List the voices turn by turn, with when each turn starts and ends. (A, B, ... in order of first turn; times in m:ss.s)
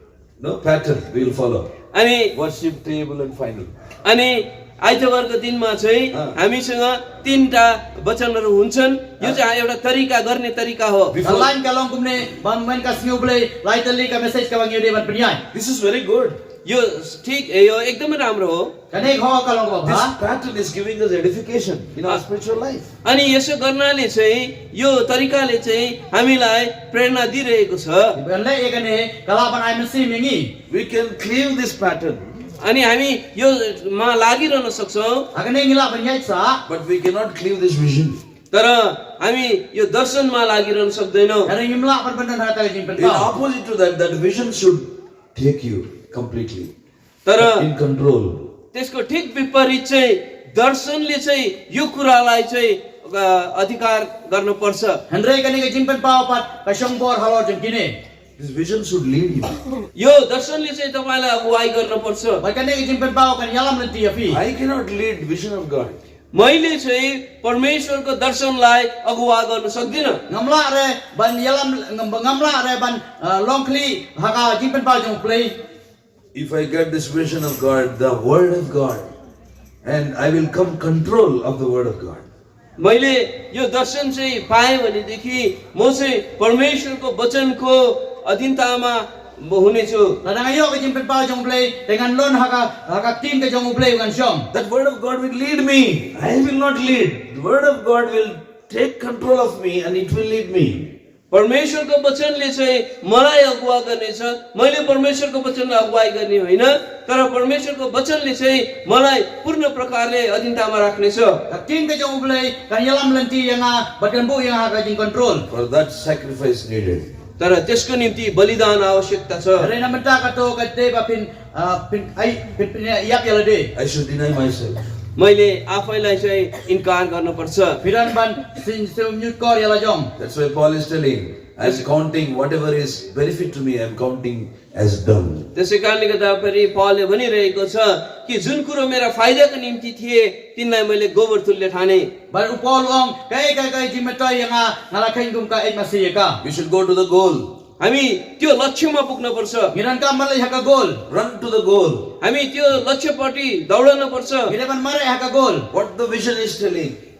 0:00.4-0:01.7 A
0:01.9-0:02.3 B
0:02.3-0:03.7 A
0:04.0-0:11.2 B
0:06.1-0:06.4 A
0:11.1-0:11.5 A
0:11.2-0:15.4 C
0:15.5-0:16.4 A
0:16.6-0:18.7 B
0:18.9-0:20.1 C
0:19.8-0:22.9 A
0:23.0-0:28.2 B
0:28.2-0:30.5 C
0:30.7-0:32.4 A
0:32.6-0:35.2 B
0:35.3-0:36.6 C
0:36.7-0:38.2 A
0:38.5-0:41.5 B
0:41.4-0:43.3 C
0:43.0-0:46.7 A
0:47.2-0:47.6 B
0:47.4-0:48.5 A
0:48.7-0:55.0 B
0:55.1-0:57.9 C
0:58.4-0:59.6 A
1:00.0-1:02.4 B
1:02.4-1:04.4 C
1:04.3-1:06.0 A
1:06.3-1:10.2 B
1:10.3-1:15.5 C
1:16.3-1:19.1 A
1:19.8-1:22.2 A
1:22.8-1:30.2 B
1:30.2-1:34.5 C
1:34.5-1:40.9 A
1:41.3-1:51.4 B
1:51.5-1:55.4 C
1:55.5-1:57.1 A
1:57.4-1:59.7 B
1:59.6-2:03.7 C
2:03.7-2:04.8 A
2:05.2-2:07.8 B
2:07.8-2:10.1 C
2:10.2-2:15.5 A
2:15.5-2:22.1 B
2:22.3-2:26.4 C
2:26.4-2:27.5 A
2:27.8-2:29.7 B
2:29.7-2:31.0 C
2:31.1-2:32.1 A
2:32.2-2:34.5 B
2:34.5-2:35.7 C
2:35.7-2:37.0 A